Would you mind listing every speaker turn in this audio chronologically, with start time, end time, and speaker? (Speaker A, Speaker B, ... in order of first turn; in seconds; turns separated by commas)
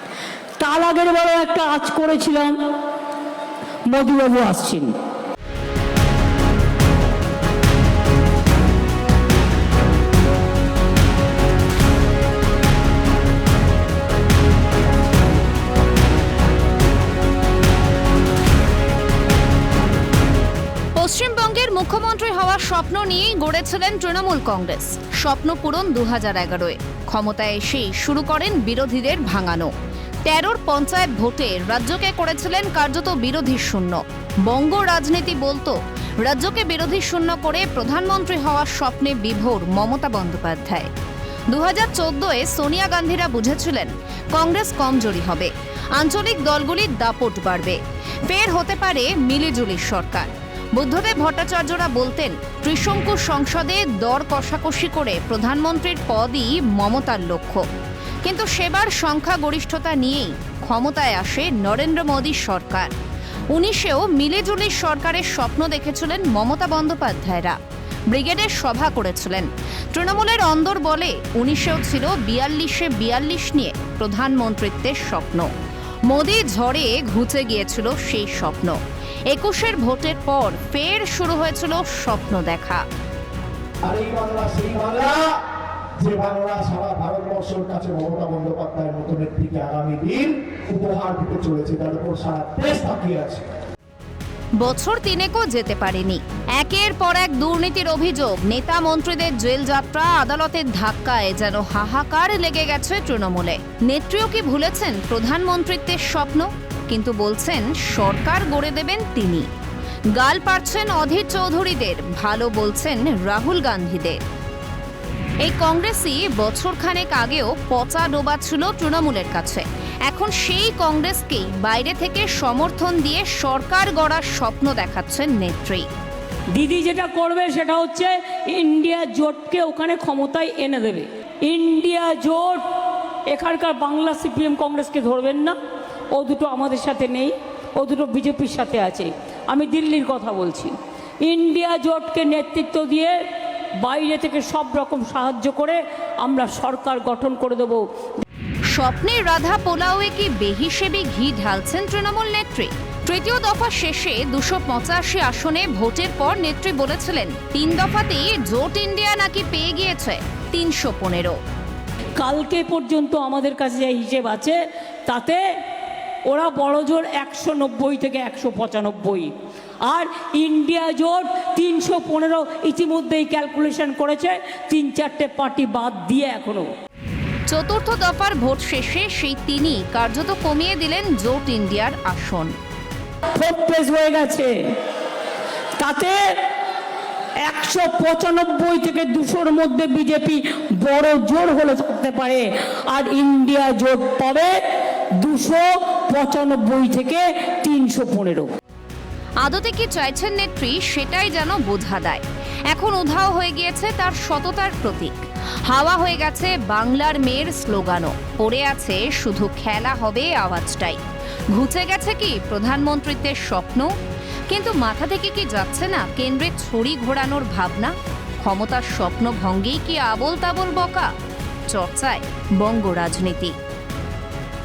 Speaker A: 0.6-2.5, Speaker A: 3.9-4.9, Speaker B: 20.9-29.7, Speaker B: 30.2-40.9, Speaker B: 41.5-57.6, Speaker B: 58.2-62.9, Speaker B: 63.5-67.6, Speaker B: 68.1-75.5, Speaker B: 76.1-78.8, Speaker B: 79.3-82.8, Speaker C: 83.8-85.3, Speaker C: 86.0-93.4, Speaker B: 94.6-109.5, Speaker B: 110.2-114.2, Speaker B: 115.4-125.9, Speaker A: 126.5-132.6, Speaker A: 133.3-135.6, Speaker A: 136.1-140.7, Speaker A: 141.2-143.2, Speaker A: 143.8-147.8, Speaker B: 148.7-161.4, Speaker A: 162.2-165.4, Speaker A: 166.3-169.3, Speaker A: 169.8-176.7, Speaker B: 177.5-182.5, Speaker A: 183.3-184.5, Speaker A: 185.8-186.3, Speaker A: 187.4-194.5, Speaker A: 195.2-198.5, Speaker B: 199.4-211.0, Speaker B: 211.5-213.9, Speaker B: 214.5-221.1, Speaker B: 221.7-223.5